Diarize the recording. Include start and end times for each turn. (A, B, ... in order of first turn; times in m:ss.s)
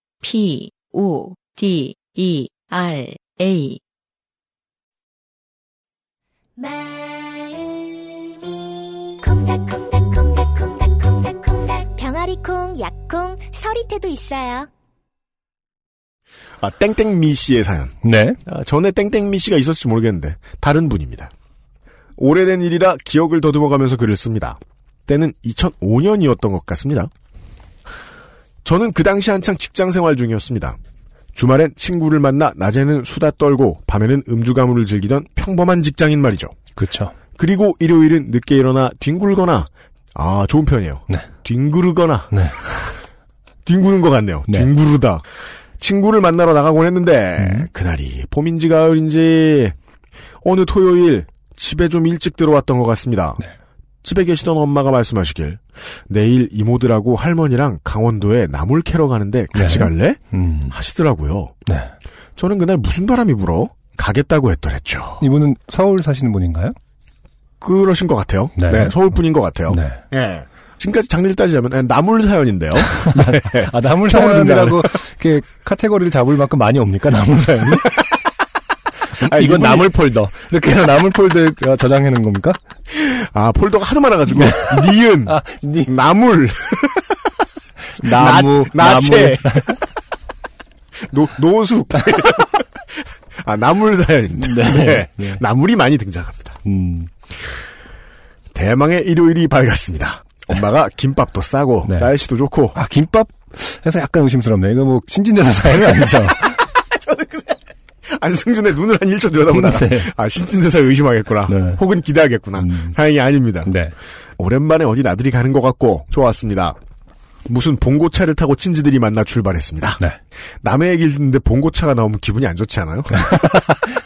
0:00.2-0:03.8 A
0:06.6-0:14.7 B
0:16.6-0:17.9 C
0:18.0-0:18.4 D
0:18.5-0:21.3 C
0:22.2-0:27.1 C
0:28.6-0:30.8 C
0:31.4-0:36.5 C
0:36.8-0:37.1 D
0:37.4-0:42.3 C
0:42.3-0:42.7 D
0:43.7-0:45.2 C
0:45.8-0:49.8 C
0:47.4-0:47.7 D
0:50.4-0:53.4 C
0:54.0-1:01.5 C
0:59.5-1:00.7 D
1:02.4-1:05.2 C
1:05.2-1:06.8 D
1:07.6-1:14.9 C
1:08.6-1:09.0 D
1:09.7-1:10.0 D
1:13.0-1:17.9 D
1:19.2-1:22.6 D
1:19.2-1:20.0 C
1:22.9-1:27.2 C
1:24.3-1:25.9 D
1:28.0-1:29.8 D
1:28.0-1:29.8 C
1:31.1-1:36.6 C
1:34.3-1:35.4 D
1:36.6-1:37.1 D
1:38.5-1:42.8 C
1:41.8-1:42.1 D
1:42.7-1:46.6 D
1:46.5-1:47.6 C
1:48.1-1:53.7 C
1:49.5-1:50.1 D
1:51.5-1:51.8 D
1:52.6-1:53.0 D
1:53.6-1:53.9 D
1:54.4-1:56.8 C
1:57.5-2:00.0 C
2:00.6-2:03.7 C
2:03.3-2:03.6 D